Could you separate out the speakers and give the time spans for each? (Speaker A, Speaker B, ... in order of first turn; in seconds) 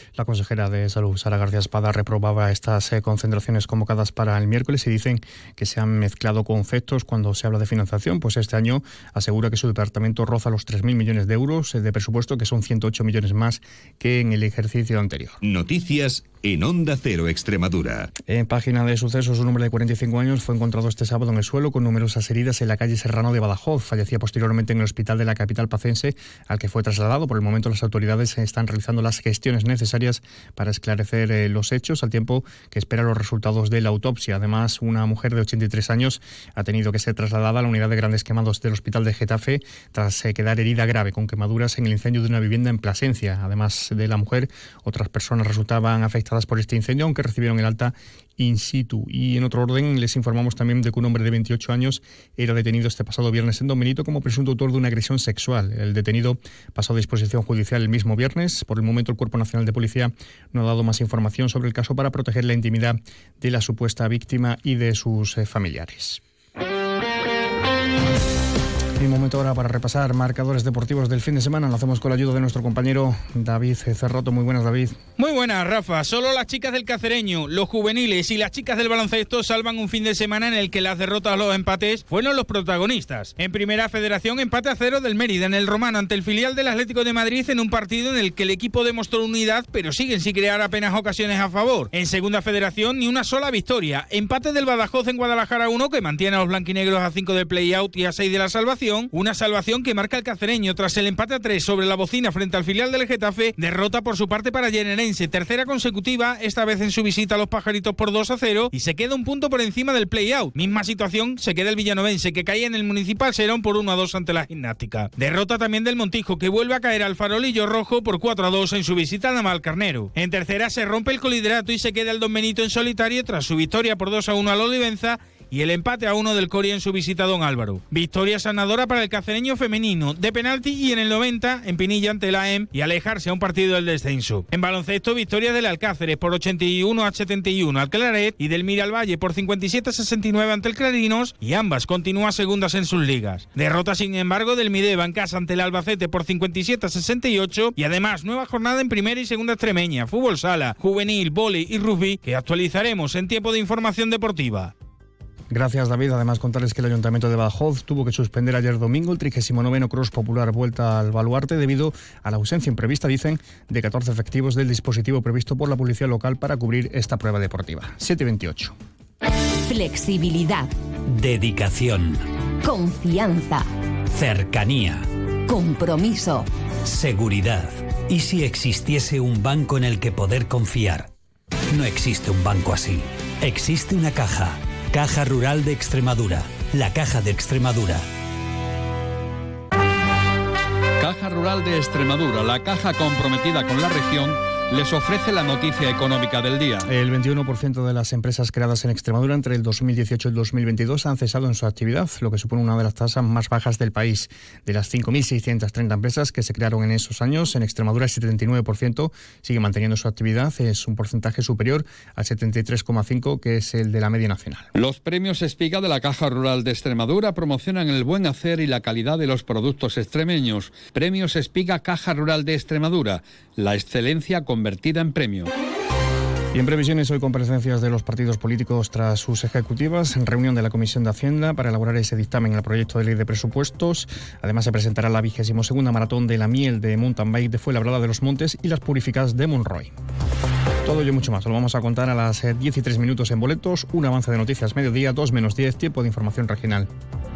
Speaker A: 0.1-15.4, 18.3-66.2, 69.0-75.0, 155.5-168.7, 196.8-214.7, 226.5-239.9, 240.8-246.9
Speaker B: 15.4-18.1
Speaker C: 75.2-154.7
Speaker D: 169.7-170.7, 172.6-173.7, 175.5-176.5
Speaker E: 171.2-172.2, 174.1-175.0, 176.8-181.1, 181.7-188.1
Speaker F: 191.0-196.9, 214.7-225.5